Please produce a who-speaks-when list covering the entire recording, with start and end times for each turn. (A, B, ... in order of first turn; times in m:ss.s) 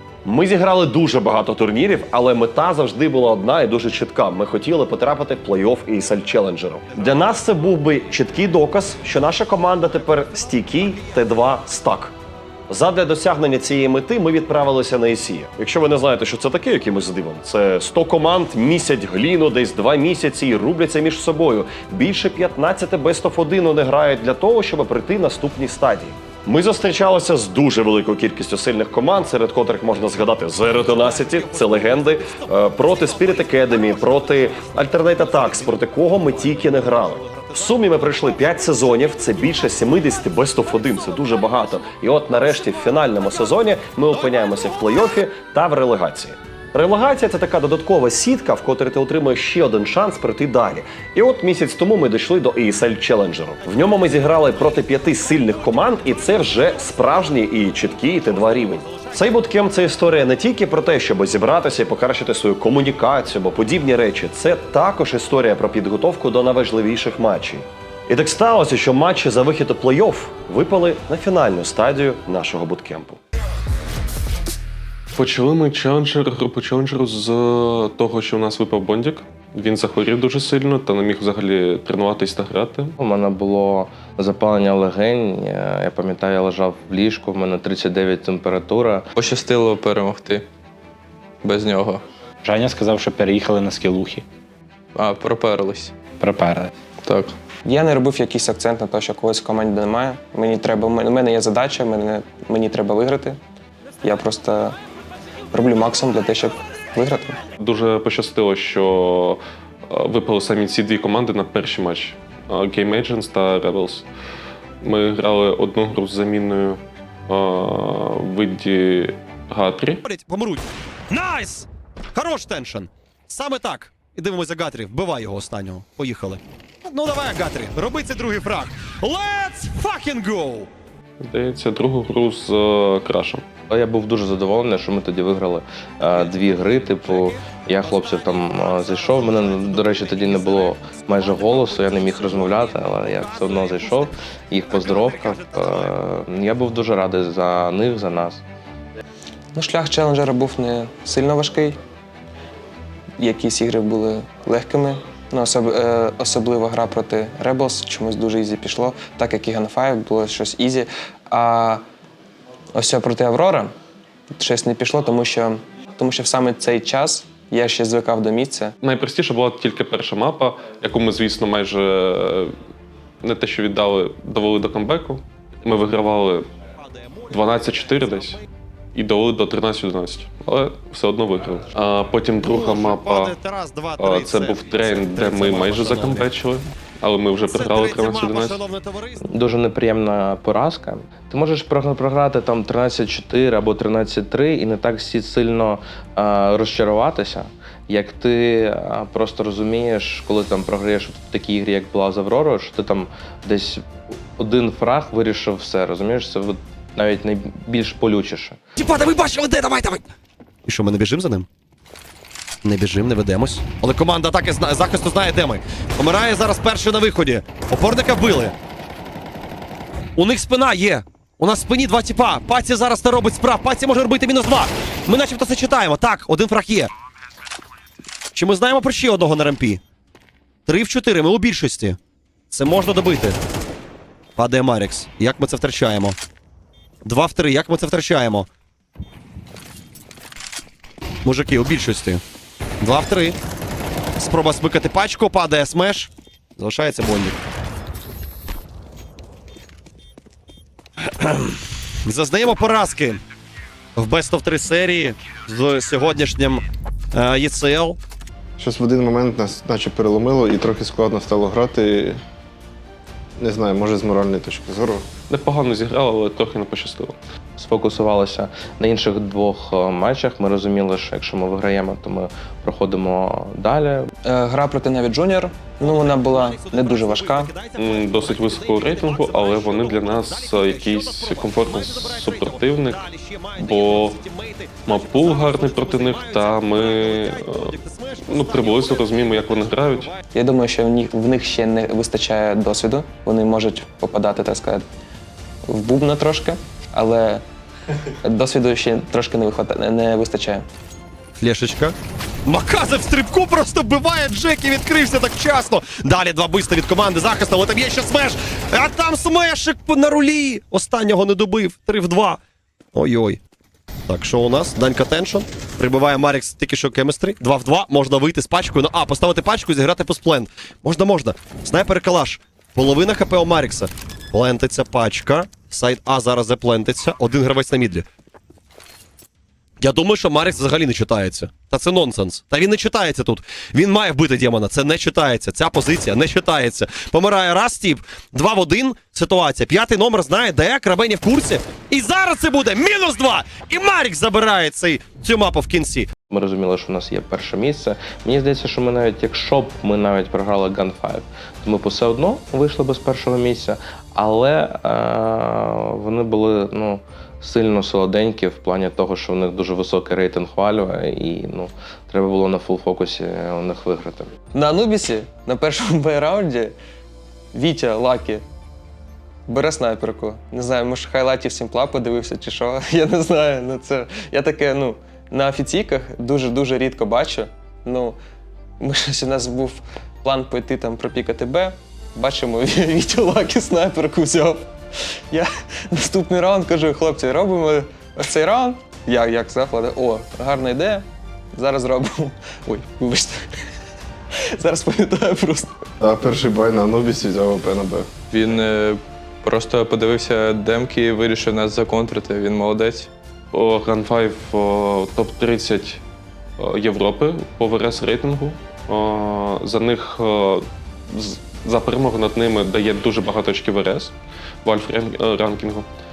0:00.2-0:12.1 A
0:12.7-1:13.2 A
1:15.1-1:22.9 B
1:23.0-1:29.0 C
1:29.1-1:30.4 D
1:31.4-1:32.0 D
1:32.4-1:34.2 E
1:35.0-1:35.9 D
1:36.2-1:36.7 E
1:37.0-1:37.4 D
1:37.6-1:43.4 F
1:44.0-1:44.8 F
1:45.5-1:47.4 F
1:47.6-1:54.1 B
1:54.8-2:00.0 B
2:00.0-2:10.7 A
2:11.2-2:13.4 B
2:13.7-2:28.4 C
2:17.0-2:24.1 A
2:24.7-2:25.9 A
2:29.5-2:31.8 F
2:33.2-2:41.8 F
2:42.7-2:43.7 F
2:44.3-2:48.7 F
2:48.8-2:52.5 B
2:53.2-2:56.5 B
2:56.9-2:58.4 A
2:57.3-2:58.4 B
2:58.9-3:03.3 B
3:02.4-3:06.3 A
3:04.0-3:08.6 B
3:07.4-3:09.2 A
3:09.2-3:28.6 C
3:28.8-3:30.0 A
3:30.6-3:31.5 A
3:32.6-3:38.5 A
3:40.2-3:46.9 A
3:48.3-3:49.8 A
3:50.6-3:52.0 A
3:52.5-3:53.4 A
3:54.4-3:56.2 A
3:57.0-3:58.5 A
4:01.2-4:02.2 A
4:02.8-4:03.4 A
4:04.2-4:07.4 A
4:11.1-4:13.2 A
4:14.0-4:16.6 A
4:17.1-4:18.0 A
4:18.6-4:22.2 G
4:23.4-4:25.0 G
4:25.3-4:27.2 B
4:27.6-4:34.0 C
4:34.2-4:37.5 F
4:35.8-4:50.2 A
4:37.8-4:44.2 B
4:44.9-4:47.7 B
4:48.2-4:50.1 B
4:50.3-4:54.8 F
4:55.6-4:57.4 F
4:58.2-5:00.6 F
5:01.4-5:12.4 A
5:12.9-5:13.4 A
5:14.1-5:28.1 A
5:29.8-5:46.1 A
5:46.3-6:04.3 C
6:04.5-6:06.7 F
6:07.5-6:08.4 F
6:09.5-6:18.2 F
6:18.8-6:24.7 F
6:25.3-6:33.5 F
6:34.3-6:35.8 F
6:36.0-6:38.1 G
6:38.3-6:43.1 D
6:43.5-6:46.0 B
6:46.6-6:55.9 B